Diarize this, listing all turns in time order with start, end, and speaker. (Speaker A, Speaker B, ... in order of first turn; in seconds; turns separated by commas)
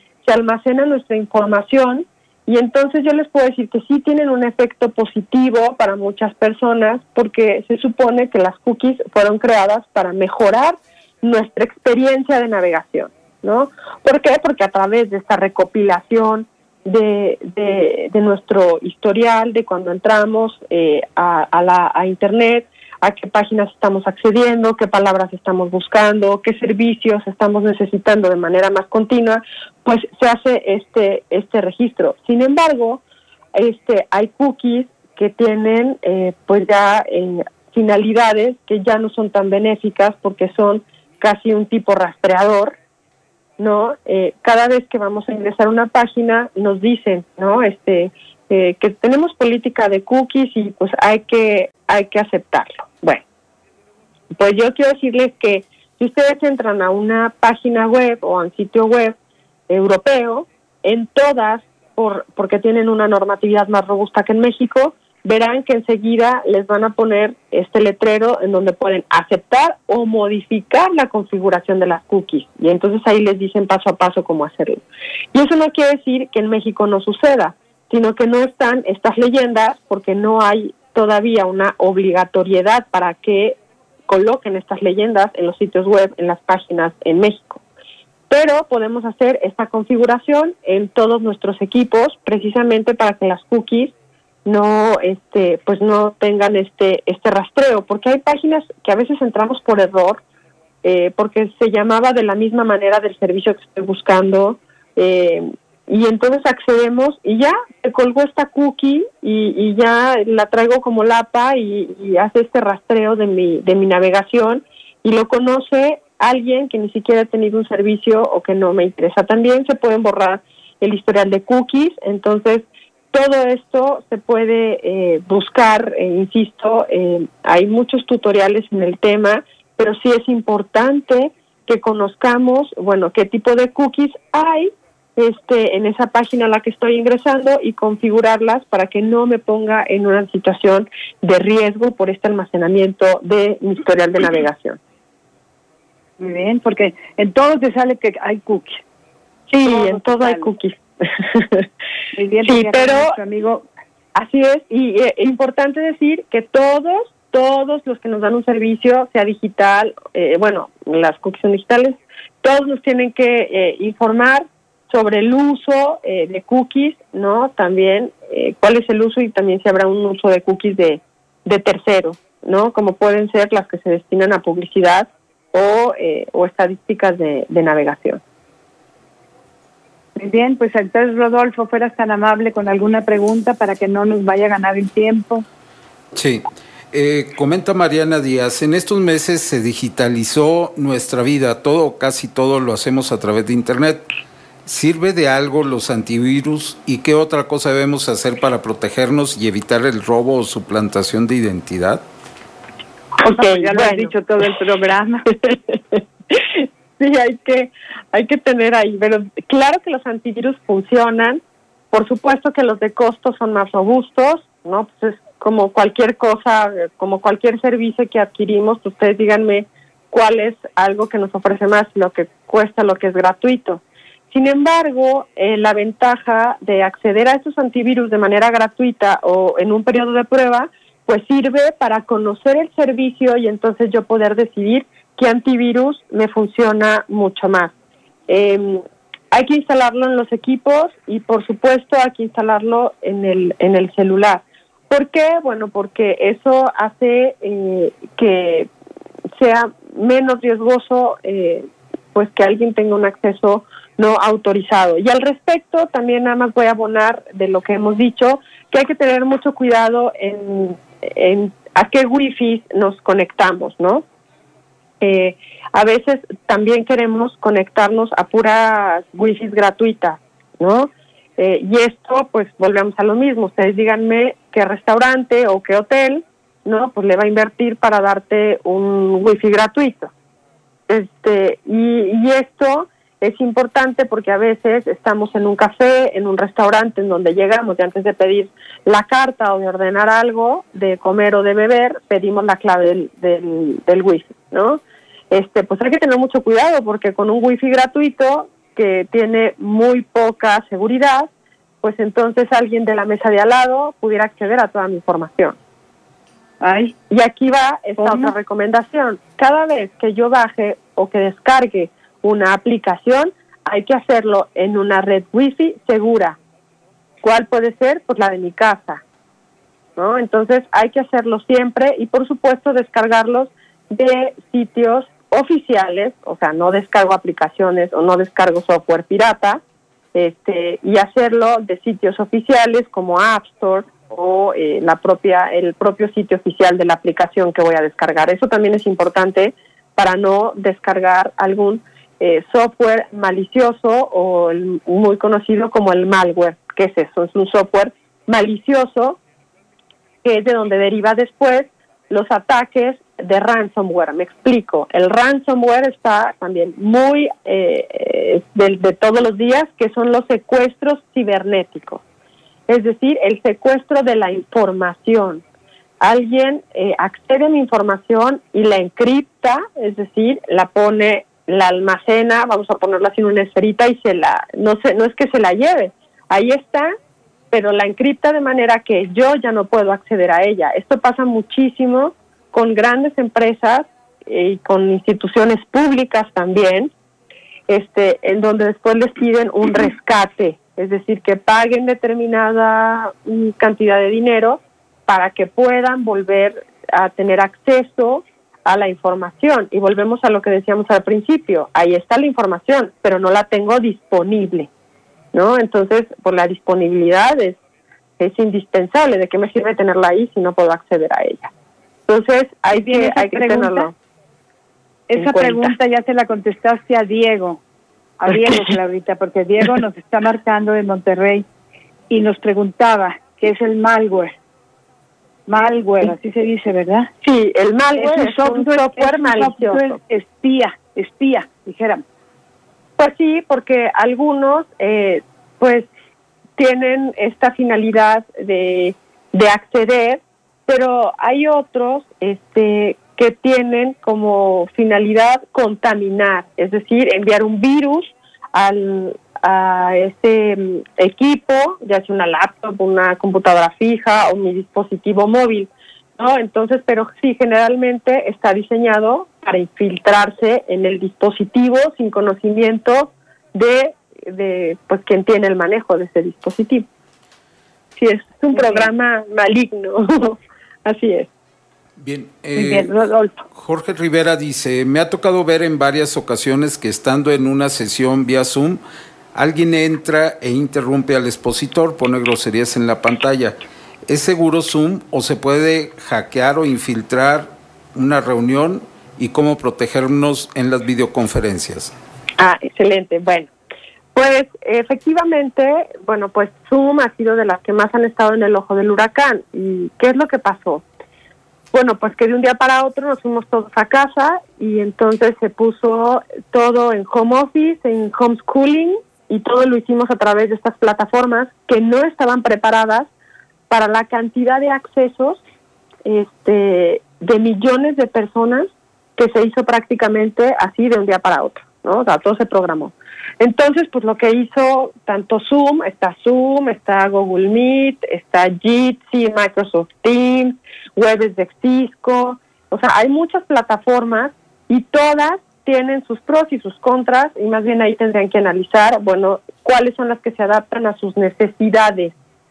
Speaker A: 0.2-33.0, Speaker A: 33.5-42.8, Speaker A: 43.6-53.2, Speaker A: 54.3-59.1, Speaker A: 59.7-74.8, Speaker A: 75.3-83.6, Speaker A: 84.1-87.6, Speaker A: 88.3-93.9, Speaker A: 94.5-100.2, Speaker A: 100.8-144.8, Speaker B: 146.2-148.8, Speaker A: 149.5-151.7, Speaker B: 149.7-150.5, Speaker B: 152.1-153.6, Speaker A: 152.4-153.1, Speaker A: 154.1-178.2, Speaker B: 180.2-185.4, Speaker C: 186.1-194.0, Speaker C: 194.7-202.0, Speaker A: 203.2-204.1, Speaker B: 203.2-205.2, Speaker A: 205.3-211.4, Speaker A: 211.9-237.7, Speaker A: 238.3-248.7, Speaker A: 249.4-264.0, Speaker A: 265.0-280.1, Speaker A: 280.9-301.3, Speaker A: 301.8-305.6, Speaker B: 306.6-306.9, Speaker A: 307.1-316.4, Speaker B: 308.0-308.3, Speaker A: 317.2-319.0, Speaker A: 319.9-329.6, Speaker A: 330.1-349.2, Speaker A: 350.2-362.0, Speaker A: 362.7-365.4, Speaker A: 366.0-376.9, Speaker A: 377.5-386.9, Speaker A: 387.7-404.7, Speaker A: 405.3-407.6, Speaker A: 408.2-411.5, Speaker A: 412.1-413.9, Speaker B: 412.7-413.9, Speaker B: 415.1-417.6, Speaker A: 415.1-415.7, Speaker B: 418.2-421.4, Speaker B: 422.1-424.4, Speaker B: 425.5-427.1, Speaker A: 427.2-429.9, Speaker B: 428.0-432.0, Speaker A: 433.0-435.9, Speaker A: 436.6-466.9, Speaker A: 468.0-471.3, Speaker B: 468.5-468.9, Speaker C: 472.0-473.0, Speaker B: 472.5-473.4, Speaker C: 473.5-478.8, Speaker C: 479.3-491.9, Speaker A: 492.4-493.5, Speaker A: 494.1-500.8, Speaker A: 501.7-513.1, Speaker A: 513.7-515.4, Speaker A: 516.0-542.1